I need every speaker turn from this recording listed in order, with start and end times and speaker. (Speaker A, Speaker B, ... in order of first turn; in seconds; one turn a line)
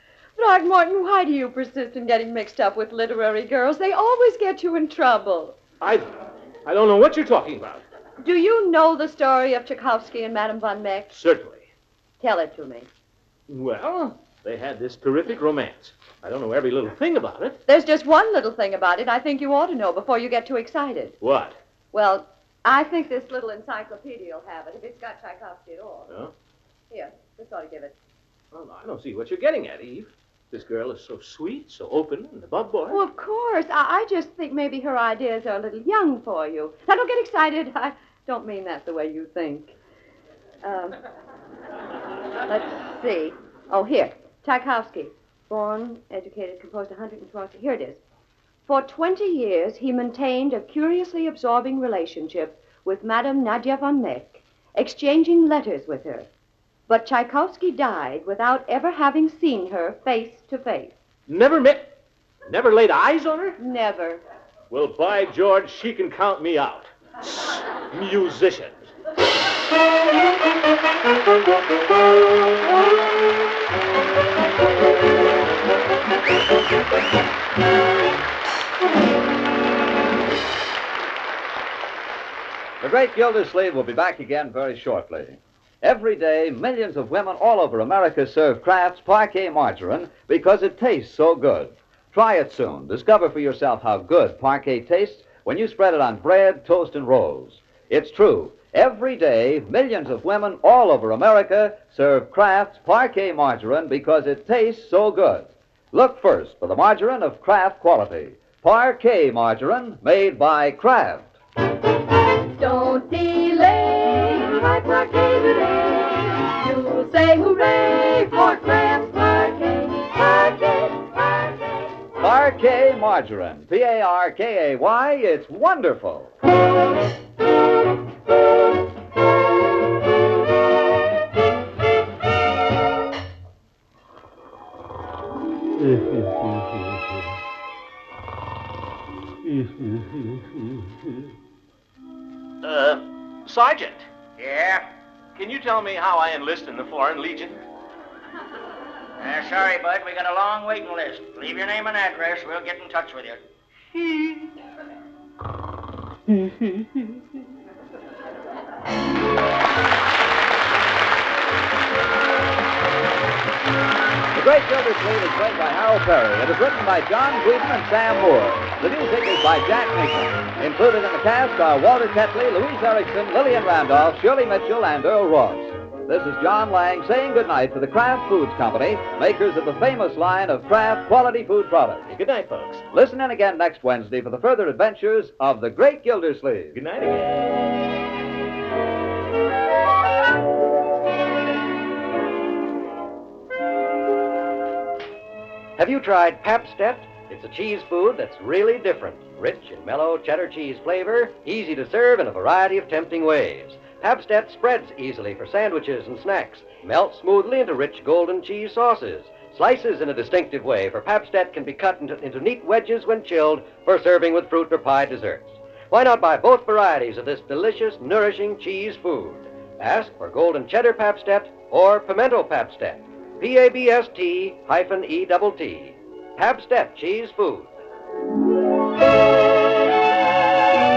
Speaker A: 0.4-5.6
Speaker B: 5.8-6.1
Speaker B: 6.7-7.8
Speaker A: 8.2-11.2
Speaker B: 11.1-11.7
Speaker A: 12.2-12.9
Speaker B: 13.5-17.6
Speaker A: 17.7-21.2
Speaker B: 21.2-21.6
Speaker A: 21.9-26.1
Speaker A: 26.9-27.9
Speaker B: 28.5-33.0
Speaker A: 32.9-39.8
Speaker A: 40.6-41.0
Speaker A: 42.5-48.0
Speaker A: 48.7-56.3
Speaker A: 56.9-61.0
Speaker B: 61.3-61.9
Speaker B: 62.5-63.6
Speaker A: 63.6-64.2
Speaker B: 64.7-68.9
Speaker C: 82.8-111.3
Speaker D: 112.6-121.9
Speaker C: 122.2-126.3
Speaker B: 135.8-137.3
Speaker B: 139.4-141.3
Speaker B: 142.6-144.1
Speaker E: 144.4-144.9
Speaker B: 145.3-147.6
Speaker E: 149.2-153.4
Speaker B: 154.0-154.5
Speaker B: 156.3-157.2
Speaker C: 164.3-182.1
Speaker B: 182.1-182.8
Speaker C: 182.9-186.8
Speaker B: 186.8-187.7
Speaker F: 195.8-227.7